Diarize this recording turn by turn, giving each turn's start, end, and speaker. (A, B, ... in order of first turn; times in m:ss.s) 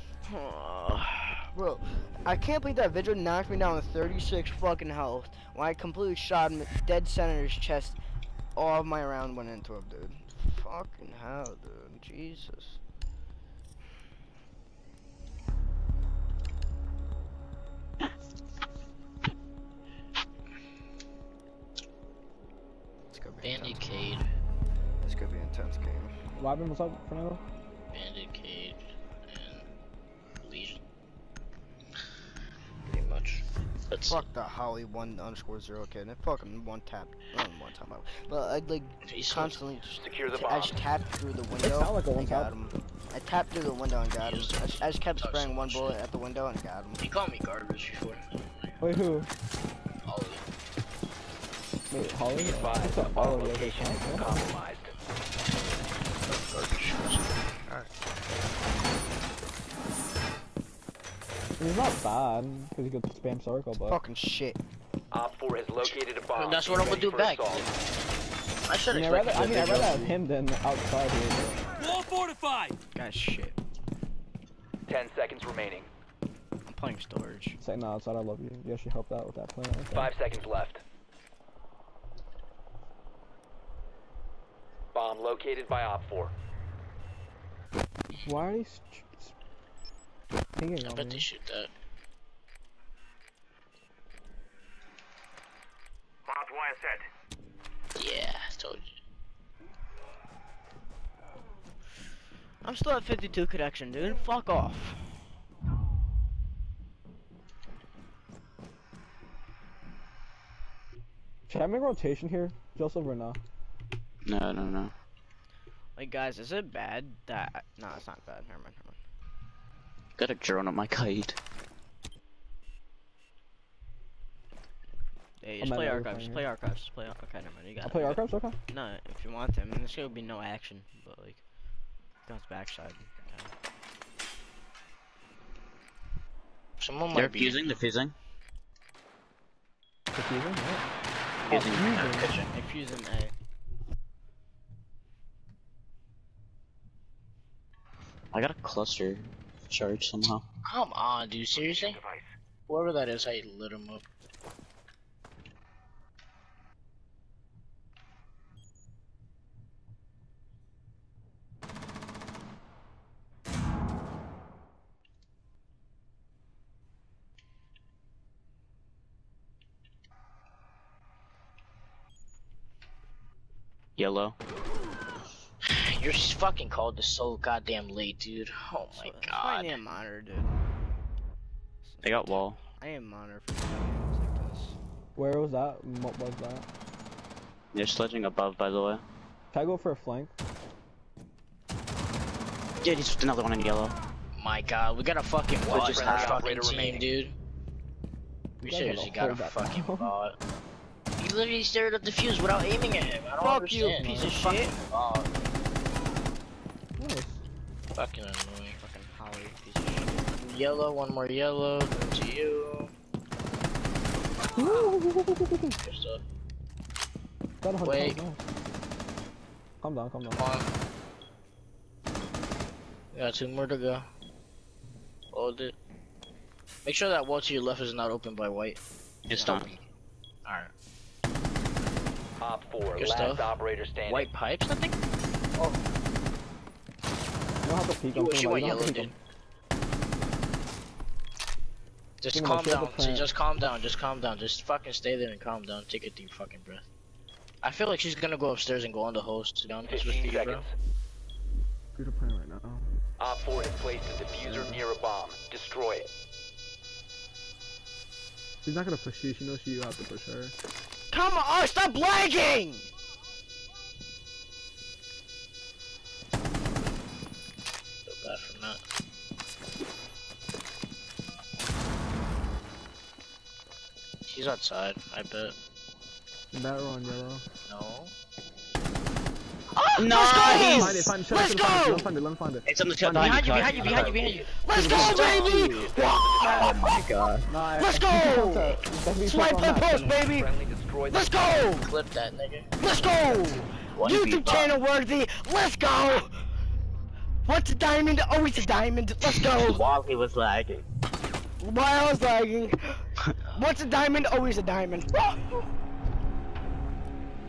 0:00.2-0:08.0 A
0:08.5-0:12.8 A
0:23.1-0:24.1 A
0:23.4-0:24.2 B
0:25.0-0:26.1 A
0:26.3-0:27.4 C
0:27.9-0:29.6 B
0:30.4-0:30.8 B
0:32.8-0:34.2 B
0:34.0-0:47.0 A
0:39.0-0:39.6 B
0:40.0-0:40.8 D
0:41.6-0:42.5 C
0:44.2-0:46.0 B
0:47.0-0:48.8 B
0:48.8-0:49.3 C
0:50.0-0:50.4 B
0:51.9-0:54.4 C
0:52.3-0:54.9 D
0:56.2-0:57.3 B
1:01.6-1:04.0 C
1:03.9-1:04.6 A
1:05.1-1:07.7 D
1:05.8-1:07.6 B
1:08.7-1:10.1 B
1:08.9-1:11.7 C
1:12.9-1:13.6 A
1:14.9-1:15.9 D
1:16.6-1:17.6 A
1:17.6-1:20.1 C
1:19.9-1:20.8 D
1:24.9-1:26.3 D
1:28.1-1:29.3 C
1:30.5-1:31.3 C
1:30.8-1:31.7 B
1:36.3-1:37.0 D
1:37.9-1:38.9 B
1:42.6-1:45.2 A
1:51.5-1:53.4 C
1:54.2-1:54.9 E
1:56.0-1:59.0 A
2:00.2-2:01.4 E
2:05.4-2:11.4 A
2:05.6-2:06.4 C
2:07.8-2:08.6 C
2:12.2-2:13.5 A
2:16.8-2:17.7 B
2:17.1-2:18.1 E
2:20.1-2:20.8 C
2:21.5-2:21.9 E
2:21.5-2:22.3 C
2:21.9-2:22.5 B
2:22.5-2:23.3 A
2:28.3-2:30.4 E
2:30.6-2:32.0 B
2:31.5-2:32.2 D
2:32.7-2:34.0 B
2:54.0-2:54.4 E
2:55.6-2:59.8 B
2:58.9-3:00.5 A
3:01.8-3:04.8 A
3:02.0-3:02.6 E
3:05.2-3:06.7 C
3:07.7-3:09.0 E
3:09.5-3:10.3 C
3:12.8-3:13.9 E
3:14.3-3:17.3 B
3:15.6-3:17.1 D
3:15.7-3:16.4 E
3:18.6-3:20.4 B
3:18.6-3:20.1 C
3:21.2-3:25.3 B
3:23.4-3:24.7 A
3:24.0-3:24.4 C
3:27.0-3:27.4 C
3:27.9-3:28.8 B
3:28.7-3:30.3 A
3:30.3-3:32.9 B
3:34.6-3:35.8 C
3:35.8-3:36.2 B
3:37.6-3:38.4 C
3:37.8-3:38.2 B
3:39.8-3:40.4 C
3:40.3-3:40.7 B
3:43.1-3:44.1 B
3:45.3-3:45.7 B
3:46.8-3:48.8 B
3:49.3-3:49.7 E
3:49.4-3:49.8 B
3:49.4-3:49.8 A
3:50.4-3:50.7 B
3:52.4-3:54.3 D
3:53.0-3:55.0 B
3:57.6-3:59.1 C
3:58.1-3:59.2 B
4:02.2-4:06.8 B
4:02.3-4:03.3 C
4:07.6-4:10.7 B
4:09.8-4:10.7 D
4:11.9-4:12.8 C
4:13.2-4:16.1 D
4:14.4-4:14.8 C
4:18.6-4:20.5 C
4:21.1-4:22.9 A
4:28.0-4:28.8 B
4:34.3-4:35.5 B
4:36.5-4:37.4 C
4:37.6-4:38.1 B
4:39.8-4:42.1 A
4:40.0-4:41.1 E
4:40.7-4:43.9 C
4:42.6-4:44.4 E
4:43.1-4:45.6 B
4:43.6-4:44.0 D
4:44.5-4:47.0 A
4:44.7-4:45.9 C
4:45.2-4:46.9 D
4:46.6-4:47.4 E
4:47.5-4:50.2 C
4:47.6-4:50.5 A
4:50.2-4:51.5 D
4:51.1-4:51.9 A
4:51.8-4:52.7 B
4:52.8-4:56.4 A
4:53.9-4:54.7 E
4:57.4-4:59.8 A
4:59.6-5:00.8 E
5:01.6-5:03.0 A
5:03.5-5:05.4 A